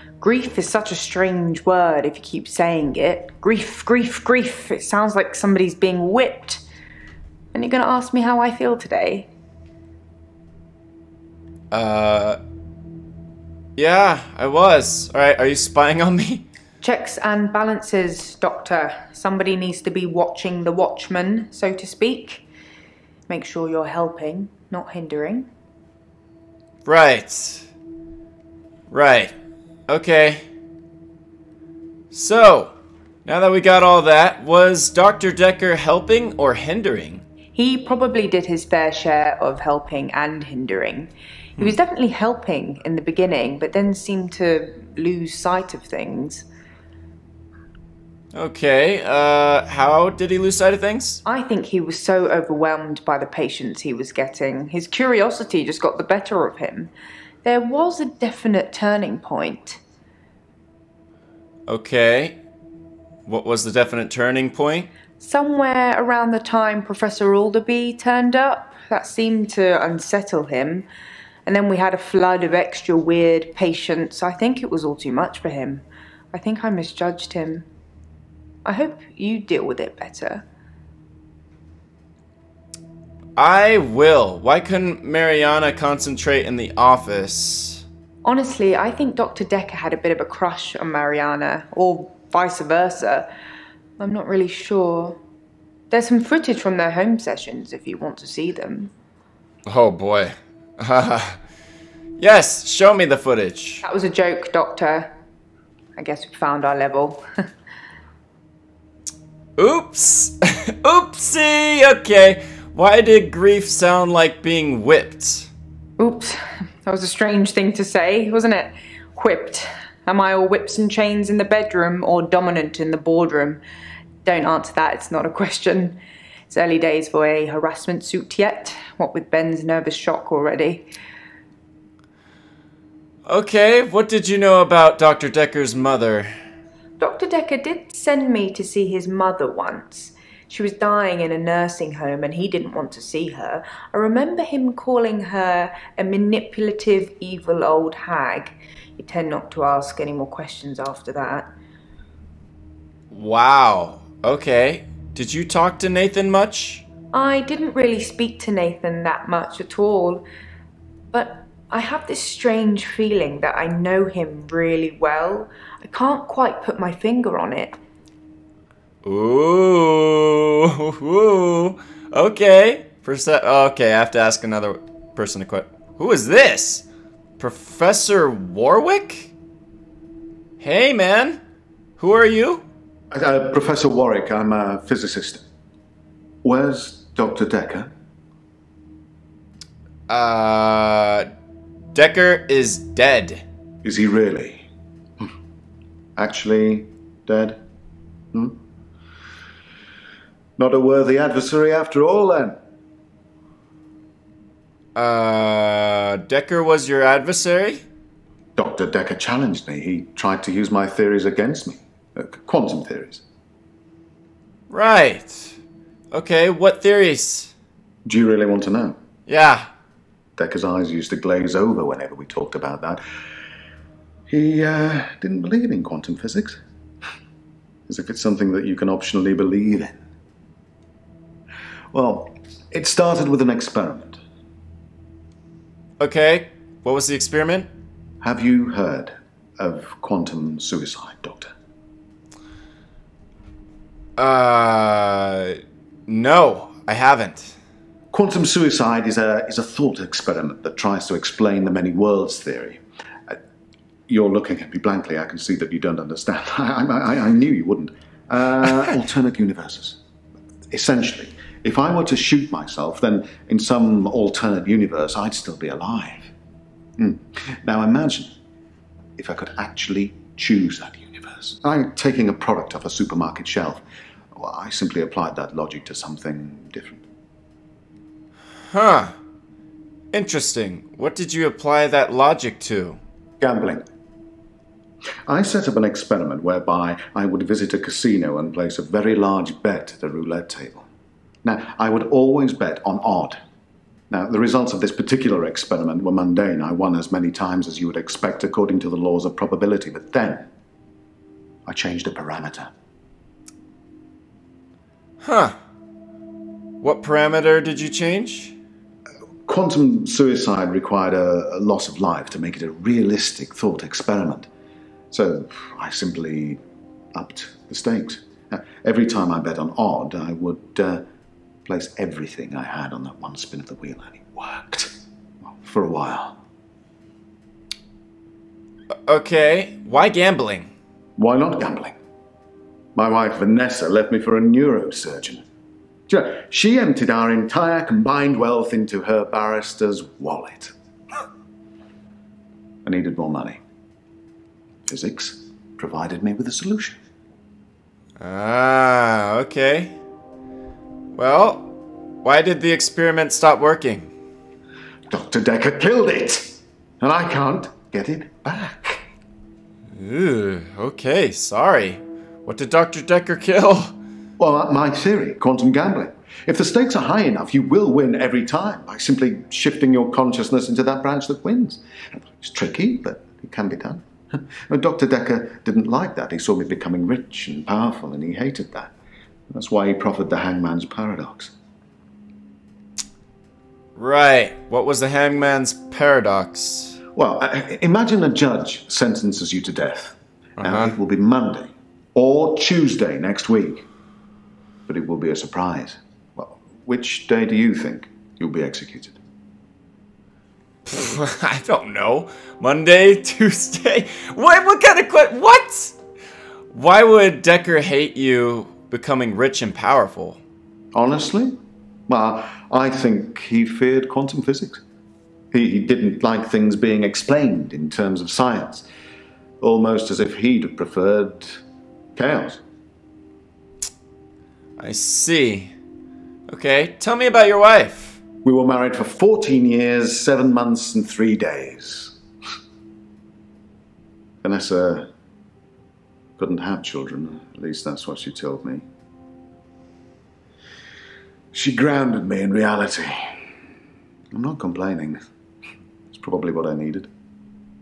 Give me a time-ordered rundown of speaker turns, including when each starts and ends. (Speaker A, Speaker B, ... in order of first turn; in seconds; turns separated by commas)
Speaker A: 0.2-6.6, Speaker A: 7.5-9.3, Speaker B: 11.7-12.4, Speaker B: 13.8-16.4, Speaker A: 16.8-22.4, Speaker A: 23.3-25.5, Speaker B: 26.9-27.7, Speaker B: 28.9-29.3, Speaker B: 29.9-30.4, Speaker B: 32.1-32.7, Speaker B: 33.2-37.2, Speaker A: 37.5-46.5, Speaker B: 48.3-51.2, Speaker A: 51.2-56.9, Speaker A: 57.4-59.8, Speaker B: 61.7-62.4, Speaker B: 63.3-64.9, Speaker A: 65.2-70.9, Speaker A: 71.5-77.7, Speaker A: 78.7-80.4, Speaker B: 83.4-87.8, Speaker A: 88.2-93.3, Speaker A: 94.0-95.2, Speaker A: 95.9-98.9, Speaker B: 99.7-101.4, Speaker B: 102.2-103.8, Speaker A: 103.8-105.1, Speaker A: 106.0-107.2, Speaker B: 109.6-115.5, Speaker A: 116.0-123.6, Speaker A: 124.2-126.0, Speaker A: 126.5-130.9, Speaker B: 133.3-136.3, Speaker A: 137.0-151.5, Speaker B: 153.1-156.8, Speaker A: 157.1-160.2, Speaker A: 161.1-167.8, Speaker B: 169.0-176.8, Speaker B: 177.4-179.3, Speaker B: 180.6-181.4, Speaker B: 182.0-182.7, Speaker C: 183.1-185.4, Speaker C: 186.4-187.9, Speaker B: 190.1-191.3, Speaker B: 191.9-193.4, Speaker C: 193.8-194.7, Speaker C: 196.2-197.6, Speaker C: 198.3-198.6, Speaker C: 200.6-202.6, Speaker B: 204.9-207.8, Speaker C: 208.6-213.2, Speaker B: 214.7-215.6, Speaker B: 216.1-217.5, Speaker C: 218.1-219.0, Speaker B: 219.3-219.7, Speaker C: 220.4-223.0, Speaker C: 224.3-226.6, Speaker C: 227.9-230.0, Speaker C: 231.9-234.2, Speaker B: 236.0-237.7, Speaker C: 238.2-241.5, Speaker B: 244.2-247.6, Speaker C: 248.1-253.4, Speaker C: 254.1-260.0, Speaker C: 260.7-266.3, Speaker C: 267.0-268.3, Speaker C: 269.2-273.8, Speaker C: 274.3-277.1, Speaker B: 278.7-279.2, Speaker B: 280.1-283.0, Speaker C: 283.4-283.9, Speaker C: 285.3-290.9, Speaker C: 291.4-293.4, Speaker C: 294.1-300.5, Speaker C: 301.7-302.7, Speaker B: 305.2-305.6, Speaker B: 306.8-308.6, Speaker C: 309.5-314.5, Speaker C: 315.1-316.6, Speaker C: 317.1-321.1, Speaker C: 321.7-324.9, Speaker C: 325.4-326.4, Speaker B: 329.1-330.7, Speaker C: 331.2-331.9, Speaker C: 332.9-335.4, Speaker C: 336.1-340.7, Speaker C: 342.9-343.6, Speaker C: 344.9-347.0, Speaker B: 348.2-349.9, Speaker B: 351.1-351.7, Speaker B: 352.2-354.1, Speaker C: 355.1-359.1, Speaker B: 359.9-363.9, Speaker C: 364.4-378.9, Speaker C: 379.5-381.5, Speaker B: 384.0-387.0, Speaker C: 387.1-393.9, Speaker B: 390.6-390.9, Speaker C: 394.9-399.2, Speaker B: 400.9-405.9, Speaker B: 406.7-410.4, Speaker C: 410.9-414.8, Speaker C: 415.5-418.9, Speaker C: 419.6-421.6, Speaker C: 422.1-422.6, Speaker B: 424.8-425.7, Speaker B: 426.5-428.2, Speaker C: 428.4-432.2, Speaker C: 434.4-435.1, Speaker C: 436.4-438.8, Speaker C: 441.5-443.5, Speaker C: 444.3-445.2, Speaker C: 446.1-447.1